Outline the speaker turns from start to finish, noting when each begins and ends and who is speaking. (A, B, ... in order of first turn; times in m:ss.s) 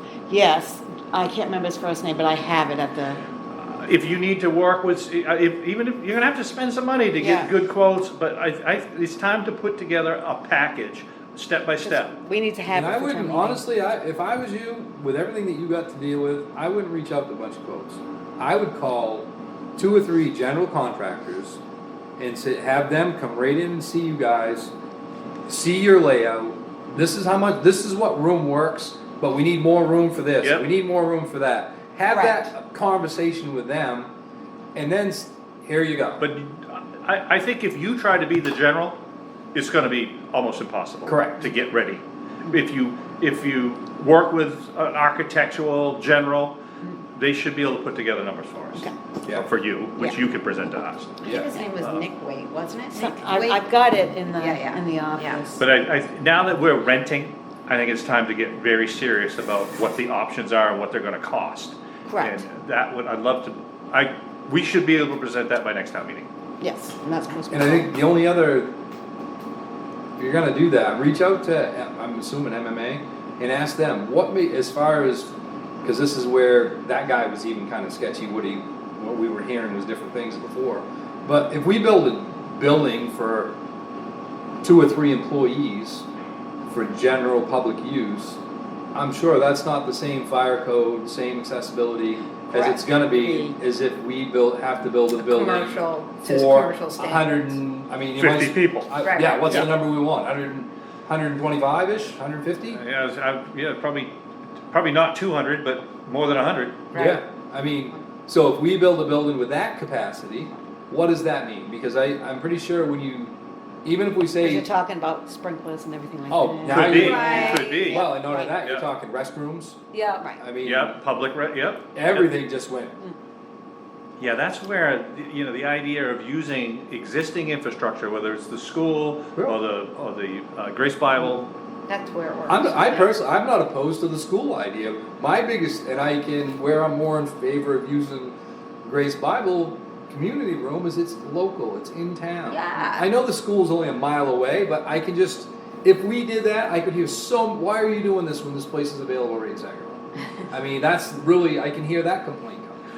0:00.3-0:03.2 A
0:03.5-0:12.2 B
0:07.2-0:07.5 A
0:11.8-0:13.6 A
0:12.7-0:21.6 C
0:22.2-0:24.7 C
0:25.5-0:34.1 C
0:30.4-0:30.6 B
0:32.1-0:32.5 D
0:34.7-0:36.2 C
0:36.2-0:39.0 B
0:39.5-0:46.6 B
0:41.0-0:41.5 C
0:47.1-0:51.2 B
0:51.2-0:53.7 D
0:51.2-0:51.5 C
0:51.7-0:52.0 B
0:52.9-0:55.6 A
0:54.4-0:55.4 D
0:55.6-1:06.3 B
1:02.1-1:02.4 A
1:06.6-1:07.9 A
1:07.5-1:08.7 C
1:10.2-1:23.5 C
1:24.6-1:26.0 C
1:26.7-1:28.4 C
1:28.9-1:42.8 C
1:32.5-1:33.5 D
1:35.2-1:37.5 D
1:38.2-1:38.9 B
1:39.0-1:39.5 D
1:42.7-1:44.1 B
1:44.7-1:46.9 B
1:46.9-1:47.2 D
1:46.9-1:54.6 C
1:54.4-1:58.6 A
1:56.3-1:59.8 C
1:56.6-1:58.8 B
1:56.9-1:58.0 D
1:59.9-2:00.3 D
2:00.4-2:01.0 C
2:00.6-2:02.4 B
2:01.9-2:03.0 C
2:04.2-2:11.5 B
2:11.9-2:13.1 D
2:12.5-2:32.8 C
2:22.5-2:23.1 D